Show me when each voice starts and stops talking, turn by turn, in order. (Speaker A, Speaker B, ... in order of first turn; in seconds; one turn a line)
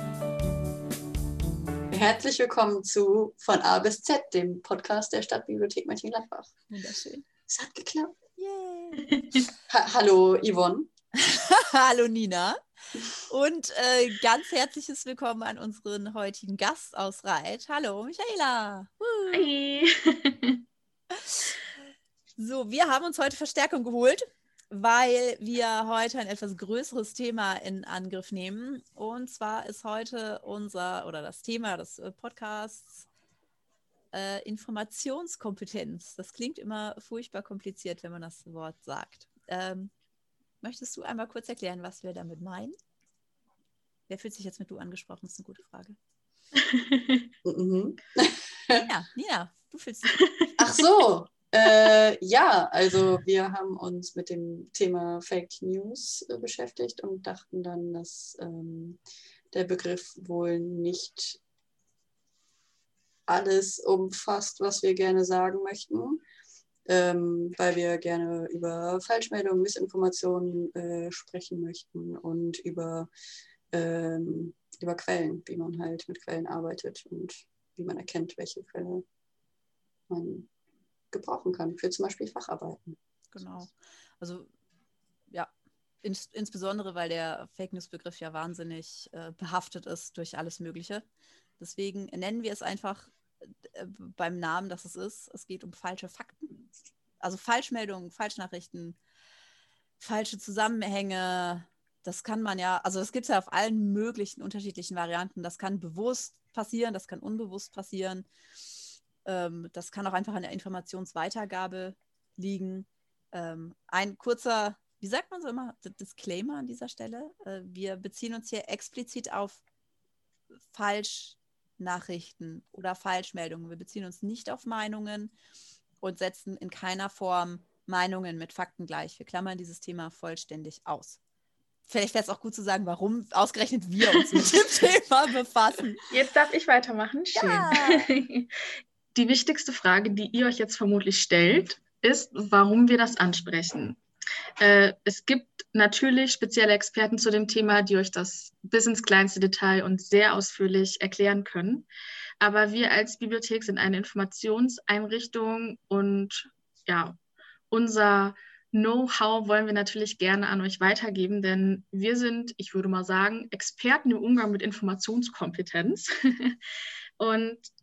Speaker A: 1.9-6.5
Speaker B: 6.7-7.2
Speaker A: 7.5-8.2
Speaker B: 8.4-9.2
Speaker A: 9.7-10.9
Speaker B: 11.2-12.6
Speaker B: 13.2-19.5
Speaker C: 19.3-20.6
Speaker B: 21.1-21.5
Speaker B: 22.4-33.1
Speaker B: 34.1-39.9
Speaker B: 40.6-42.8
Speaker B: 44.1-46.0
Speaker C: 46.5-47.3
Speaker A: 47.5-48.9
Speaker B: 48.8-50.2
Speaker C: 50.2-50.5
Speaker A: 50.6-59.0
Speaker A: 59.5-61.4
Speaker A: 63.3-66.2
Speaker A: 66.9-73.1
Speaker A: 73.7-79.0
Speaker A: 80.1-80.5
Speaker A: 81.1-83.0
Speaker B: 83.3-84.5
Speaker B: 86.0-91.0
Speaker B: 91.6-96.7
Speaker B: 97.2-99.0
Speaker B: 100.0-108.3
Speaker B: 109.2-119.6
Speaker B: 120.7-125.3
Speaker B: 126.0-131.2
Speaker B: 131.9-136.0
Speaker C: 136.1-138.5
Speaker B: 137.3-138.1
Speaker C: 139.2-144.0
Speaker C: 144.6-151.9
Speaker C: 152.4-157.2
Speaker C: 157.7-166.6
Speaker C: 167.2-167.7